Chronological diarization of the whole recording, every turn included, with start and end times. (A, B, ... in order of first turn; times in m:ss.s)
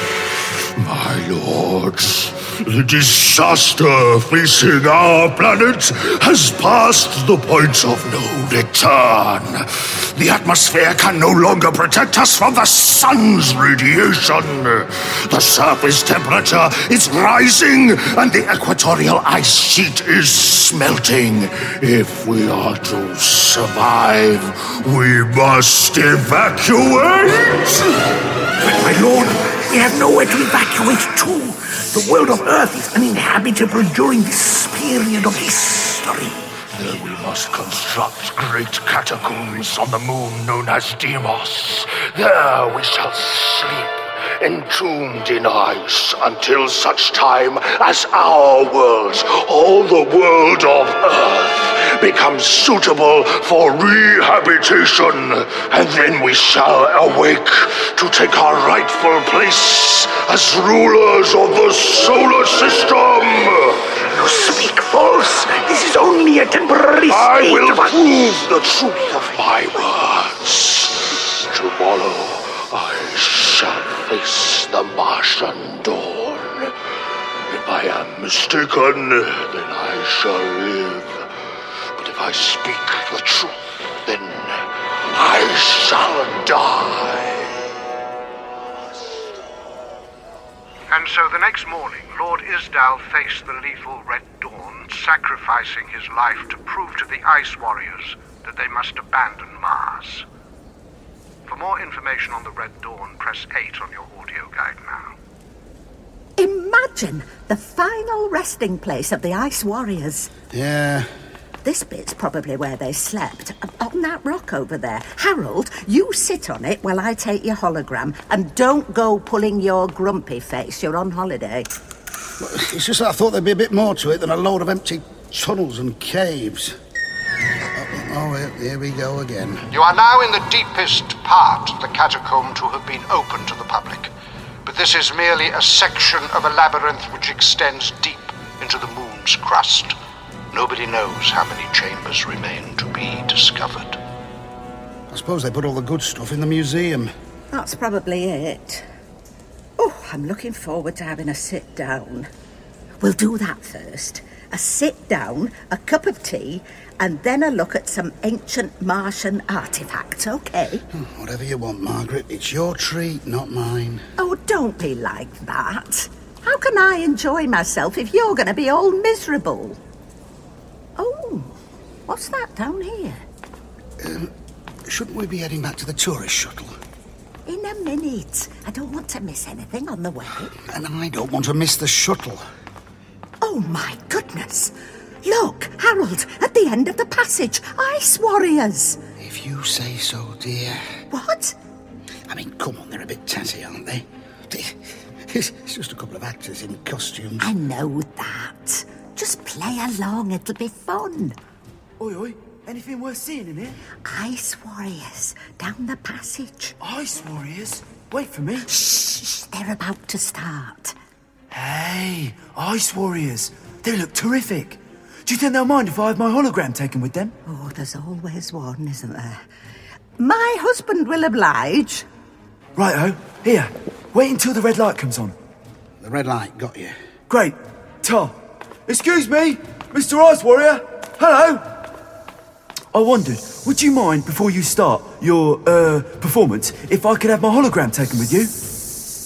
0:00.8-0:28.0 A
0:28.6-0:36.5 B
0:36.7-1:04.0 A
1:04.1-1:08.0 B
1:07.0-1:16.7 A
1:17.5-1:21.3 A
1:22.0-1:27.5 A
1:30.9-1:40.2 C
1:41.5-1:45.2 C
1:46.4-1:50.3 D
1:50.5-1:51.1 E
1:51.6-2:01.7 D
2:02.4-2:06.8 E
2:07.8-2:09.7 E
2:09.7-2:14.1 C
2:14.6-2:20.0 C
2:20.5-2:24.0 C
2:25.1-2:27.1 E
2:27.5-2:28.8 D
2:29.8-2:32.3 D
2:33.0-2:40.8 D
2:40.9-2:44.0 E
2:44.2-2:49.8 D
2:51.0-2:53.2 D
2:54.0-2:54.3 E
2:54.9-2:56.7 E
2:57.5-3:00.5 D
3:00.6-3:02.4 E
3:03.4-3:09.0 D
3:09.2-3:10.9 E
3:11.1-3:11.6 D
3:12.3-3:14.8 E
3:15.3-3:17.6 E
3:17.4-3:21.4 D
3:22.0-3:23.8 F
3:24.1-3:26.8 D
3:26.8-3:28.7 F
3:28.7-3:31.0 D
3:31.5-3:37.3 F
3:37.5-3:39.4 D
3:40.2-3:42.1 D
3:42.8-3:45.4 F
3:46.0-3:47.0 E
3:47.3-3:51.7 F
3:52.9-3:58.5 F